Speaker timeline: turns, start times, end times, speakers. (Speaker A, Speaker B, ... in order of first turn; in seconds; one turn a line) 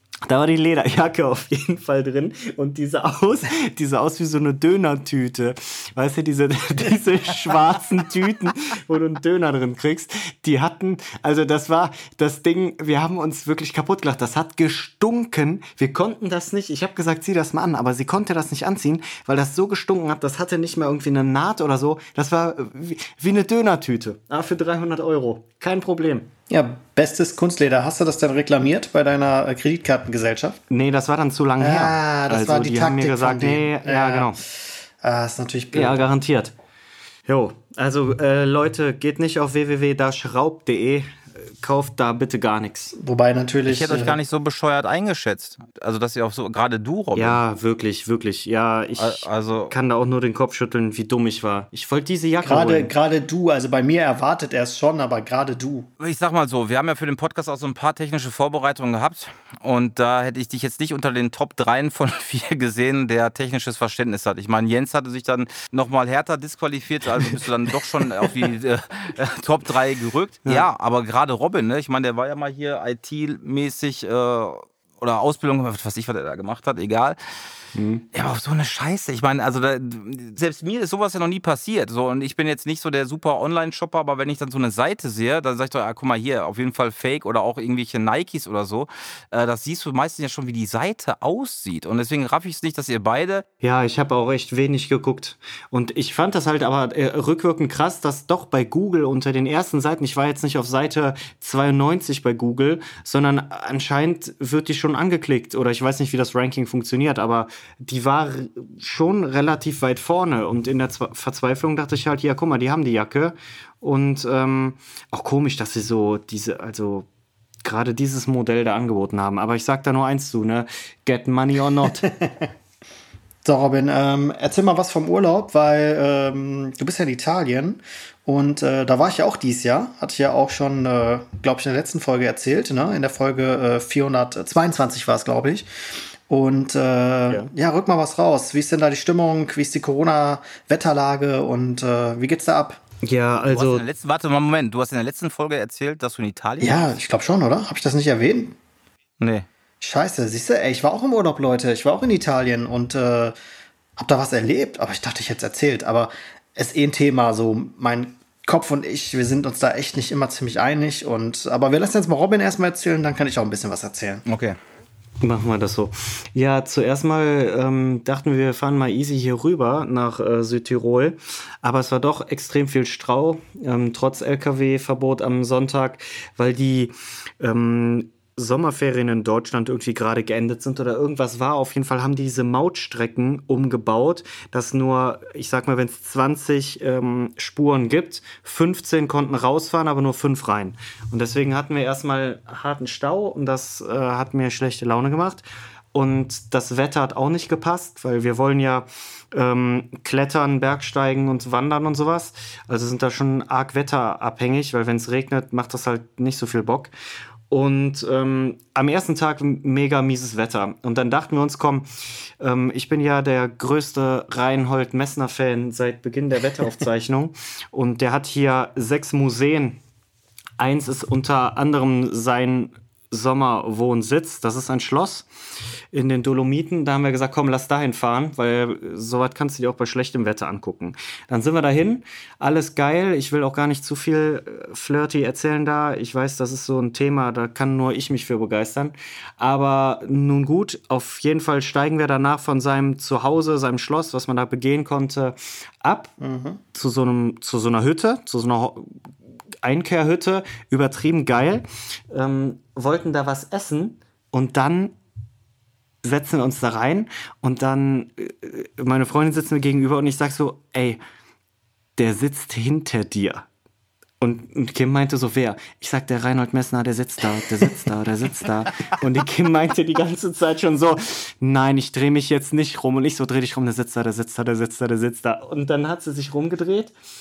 Speaker A: 0.3-26.3
Speaker B: 26.5-30.6
Speaker A: 30.7-34.4
Speaker B: 31.6-34.4
Speaker B: 35.0-36.0
Speaker A: 35.7-36.5
Speaker A: 37.3-42.9
Speaker B: 43.0-44.2
Speaker C: 43.7-47.4
Speaker A: 47.1-52.9
Speaker C: 49.0-49.7
Speaker B: 52.4-55.9
Speaker C: 56.0-77.2
Speaker A: 77.7-78.0
Speaker C: 78.1-93.5
Speaker A: 93.6-117.1
Speaker A: 117.6-122.1
Speaker B: 122.0-122.5
Speaker B: 123.4-135.7
Speaker B: 136.3-142.8
Speaker A: 143.0-143.8
Speaker C: 143.5-146.9
Speaker B: 146.6-148.6
Speaker C: 149.2-149.4
Speaker B: 149.8-153.3
Speaker B: 154.0-164.2
Speaker C: 164.2-164.6
Speaker A: 165.2-206.9
Speaker A: 207.5-211.9
Speaker A: 212.4-219.8
Speaker A: 220.6-225.3
Speaker A: 225.9-246.1
Speaker B: 246.2-246.6
Speaker A: 246.7-248.9
Speaker A: 249.6-254.9
Speaker A: 256.0-261.0
Speaker A: 262.0-263.5
Speaker A: 264.2-276.9